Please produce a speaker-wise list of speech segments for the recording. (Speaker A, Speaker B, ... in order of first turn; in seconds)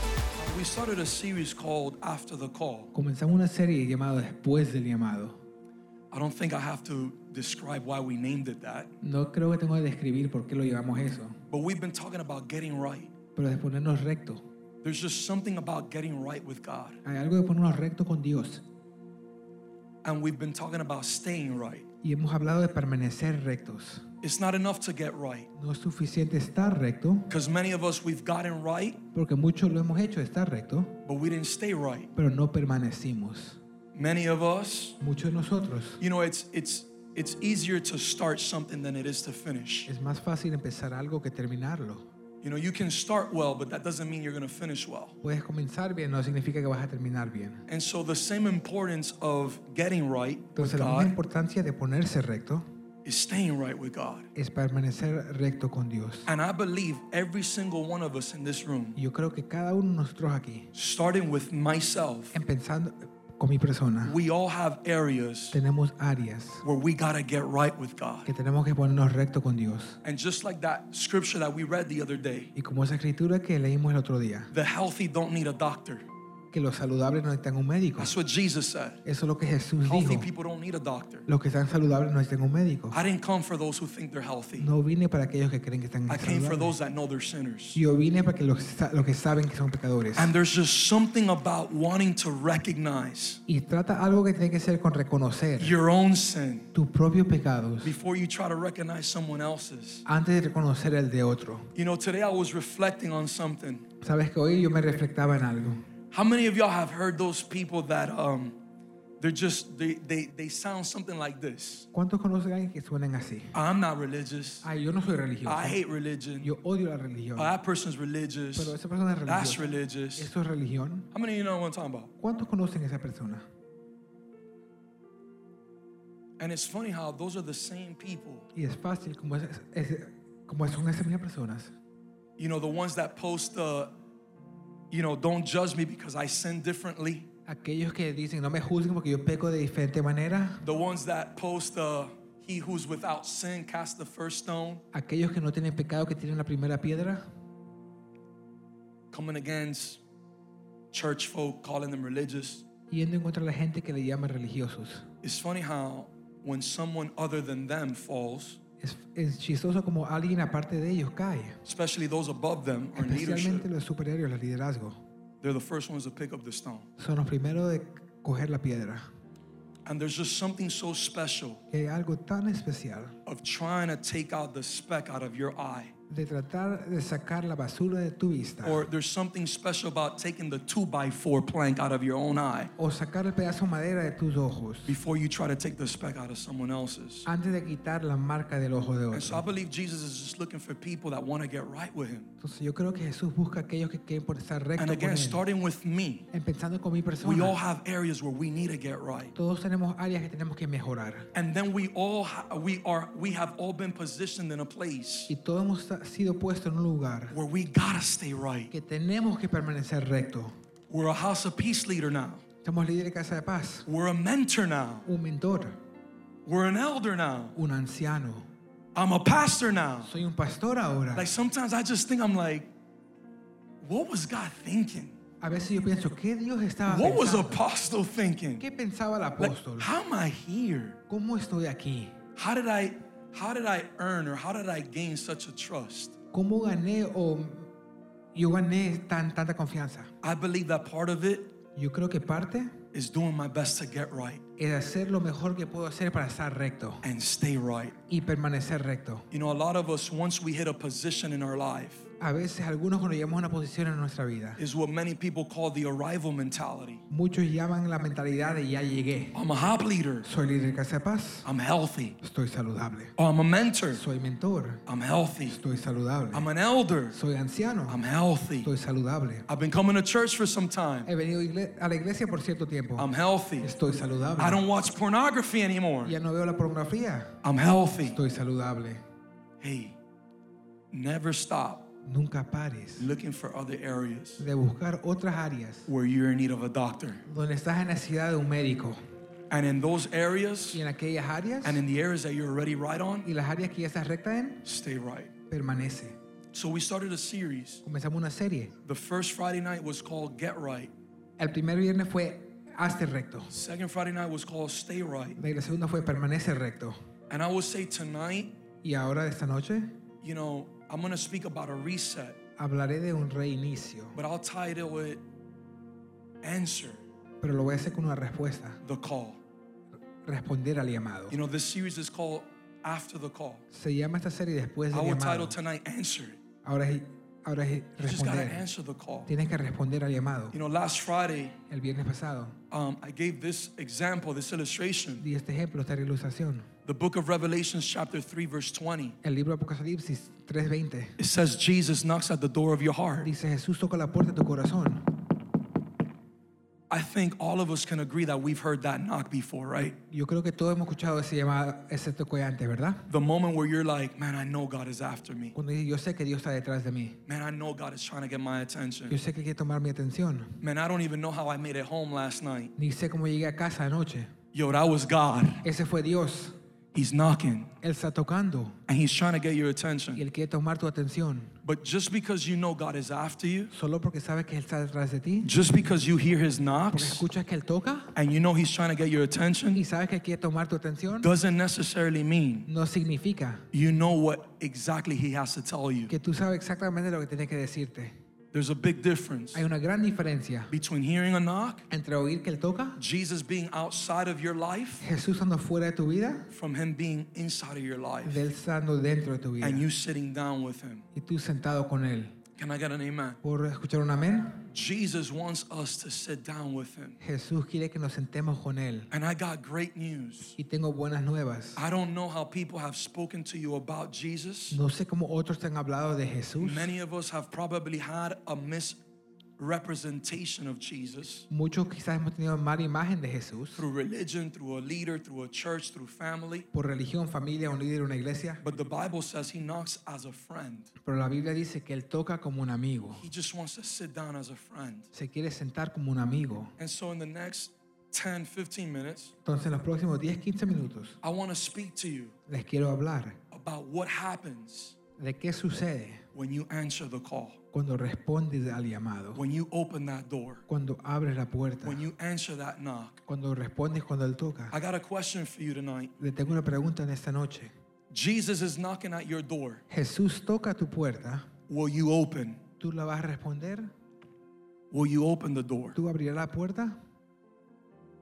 Speaker A: 0.3-2.9, 6.1-8.9, 11.5-13.1, 14.8-17.0, 20.0-21.9, 24.2-25.5, 27.3-29.0, 31.0-32.1, 33.9-35.0, 36.0-39.9, 42.4-45.1, 47.7-51.1, 53.0-54.3, 56.3-59.0, 60.7-62.4, 64.0-65.6, 66.6-68.3, 70.0-72.5, 74.5-76.0, 78.0-79.0, 79.9-81.2, 82.9-84.7, 86.1-87.8, 90.2-93.4, 95.6-96.7, 97.8-100.0, 101.7-103.8, 106.1-108.6, 109.2-111.9, 113.5-114.7, 115.5-116.5, 117.3-120.3, 121.1-122.1, 126.4-128.4, 132.4-133.9, 134.9-137.3, 140.6-144.8, 149.1-150.0, 150.9-152.6, 155.2-158.6, 161.6-163.7, 165.4-166.9, 169.8-171.6, 173.2-175.9, 178.6-182.7, 184.9-187.3, 189.1-192.3, 194.8-196.3, 197.2-199.3, 201.3-205.3, 207.3-208.7, 210.9-212.4, 213.9-215.1, 216.4-217.6, 218.9-220.1, 221.1-222.7, 223.8-225.2, 226.9-228.6, 229.4-231.0, 232.3-236.2, 240.2-241.5, 242.9-244.4, 247.0-247.9, 249.3-252.1, 254.6-257.0, 259.3-260.2, 261.4-262.2, 263.2-264.0, 264.9-265.6, 266.3-267.1, 267.9-268.7, 269.5-271.1, 273.0-273.7, 274.4-276.1, 277.4-278.2, 279.6-279.9, 280.9-281.9, 283.0-284.4, 285.9-287.2, 289.5-290.8, 291.6-293.3, 294.6-295.3, 296.5-297.8, 298.8-300.9, 303.5-305.4, 307.3-308.5, 310.2-312.4, 314.1-315.2, 316.4-317.0, 318.8-319.4, 321.3-323.6, 324.9-326.4, 328.0-329.3, 330.5-331.6, 332.7-335.2, 336.8-339.1, 341.2-343.3, 346.9-350.0, 353.1-355.5, 357.2-359.1, 360.6-362.7, 364.5-365.6, 366.9-367.7, 368.9-370.2, 371.6-373.7, 375.4-377.2, 378.1-379.8, 381.2-382.7, 383.7-386.1, 388.5-389.6, 390.7-391.9, 393.0-395.0, 396.5-398.4, 399.6-401.0, 402.6-403.4, 404.7-407.2, 409.1-410.6, 411.8-414.8, 416.6-419.0, 419.6-421.5, 423.8-426.7, 428.6-430.9, 433.2-435.1, 436.8-439.3, 441.2-442.3, 443.5-445.0, 446.3-447.6, 449.3-450.6, 451.8-453.2, 454.7-456.1, 458.1-459.8, 461.7-462.6, 464.9-465.9
Speaker B: 2.9-5.4, 9.0-11.4, 13.3-14.4, 17.0-18.6, 22.0-24.1, 25.5-27.3, 29.1-31.0, 32.1-33.6, 35.0-36.0, 39.9-42.0, 45.2-47.6, 50.5-52.6, 54.3-56.3, 59.0-60.7, 62.3-64.2, 65.5-66.6, 68.2-70.0, 72.5-74.5, 76.5-78.1, 79.0-80.3, 81.3-83.0, 84.6-86.7, 87.7-90.3, 93.5-95.8, 96.7-98.0, 100.0-101.7, 104.0-105.8, 111.9-113.5, 114.6-115.8, 116.4-117.5, 118.5-121.1, 122.2-123.4, 128.5-131.7, 137.4-140.6, 144.9-147.2, 152.9-155.1, 158.8-161.6, 162.9-165.0, 167.0-169.1, 171.7-173.2, 176.1-178.8, 182.8-185.0, 187.2-189.4, 192.4-195.4, 196.3-197.6, 199.3-201.3, 205.3-207.3, 208.7-210.5, 212.6-213.8, 215.1-215.8, 217.6-218.5, 220.0-221.3, 225.4-227.6, 228.6-229.9, 231.1-232.2, 236.3-237.7, 238.3-240.1, 241.8-242.7, 244.6-247.0, 248.1-249.3, 252.2-254.6, 257.1-259.4, 260.2-261.5, 262.2-263.1, 263.9-264.8, 265.5-266.5, 267.1-268.0, 268.6-269.5, 271.1-273.1, 273.6-274.6, 276.0-277.4, 278.1-279.0, 282.0-283.1, 284.4-285.9, 287.2-289.0, 290.7-291.8, 293.2-294.6, 295.5-296.1, 297.8-298.7, 301.4-303.5, 305.4-307.0, 308.8-310.0, 312.6-314.2, 317.4-318.8, 320.2-321.4, 323.7-325.6, 326.6-328.6, 329.2-330.6, 331.7-332.6, 335.2-336.7, 339.2-341.2, 343.2-345.1, 350.1-353.1, 355.5-357.2, 359.1-360.6, 362.8-364.3, 365.6-366.6, 367.8-368.8, 370.1-371.6, 373.7-375.5, 376.9-378.1, 379.7-381.3, 382.7-383.7, 386.1-388.1, 389.5-390.7, 391.9-393.0, 395.0-396.5, 398.2-399.9, 401.1-402.4, 403.4-404.6, 407.2-409.1, 410.6-411.8, 414.7-416.9, 421.5-423.8, 426.7-428.6, 431.0-433.2, 435.1-436.7, 439.4-441.2, 442.5-443.4, 445.2-446.2, 447.7-449.4, 450.7-452.0, 453.3-454.8, 456.2-457.7, 459.9-461.5, 462.8-463.9, 465.9-467.0